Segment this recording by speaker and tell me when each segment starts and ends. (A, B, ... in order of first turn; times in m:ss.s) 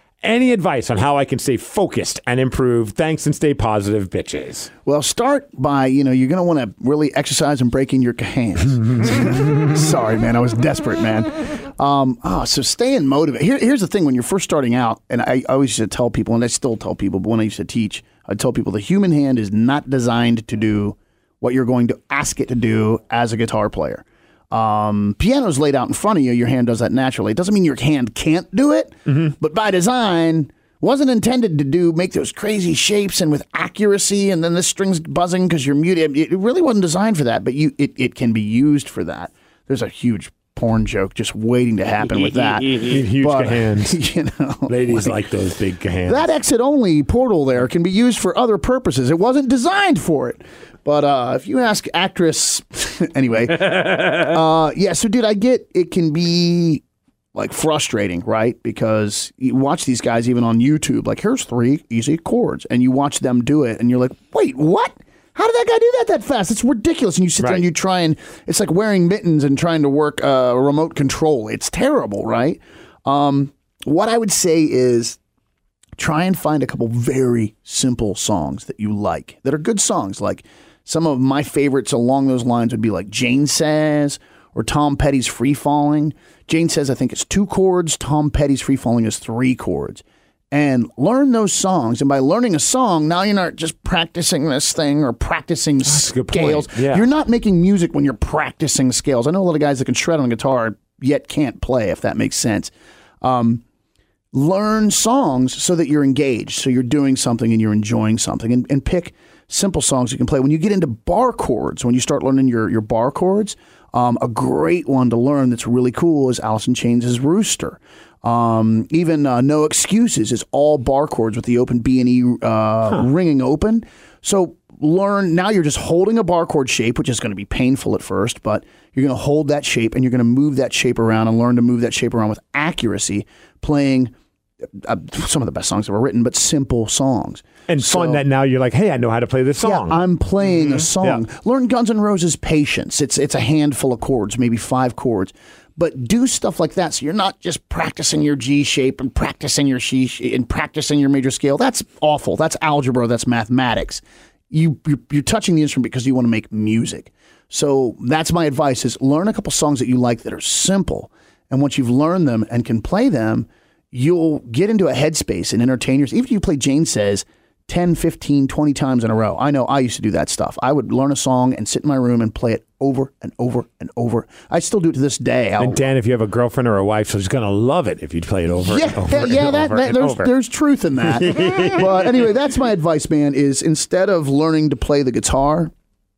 0:00.2-0:04.7 A
0:04.8-0:45.2 B
0:42.8-0:44.0 A
0:44.7-0:46.2 A
0:46.0-0:56.8 B
0:57.3-1:15.2 B
1:16.0-1:43.6 B
1:35.8-1:37.0 A
1:44.3-2:14.1 B
2:14.7-2:18.2 B
2:17.7-2:20.0 A
2:19.6-2:55.8 B
2:55.6-3:00.3 A
2:58.5-3:05.7 B
3:01.0-3:02.2 A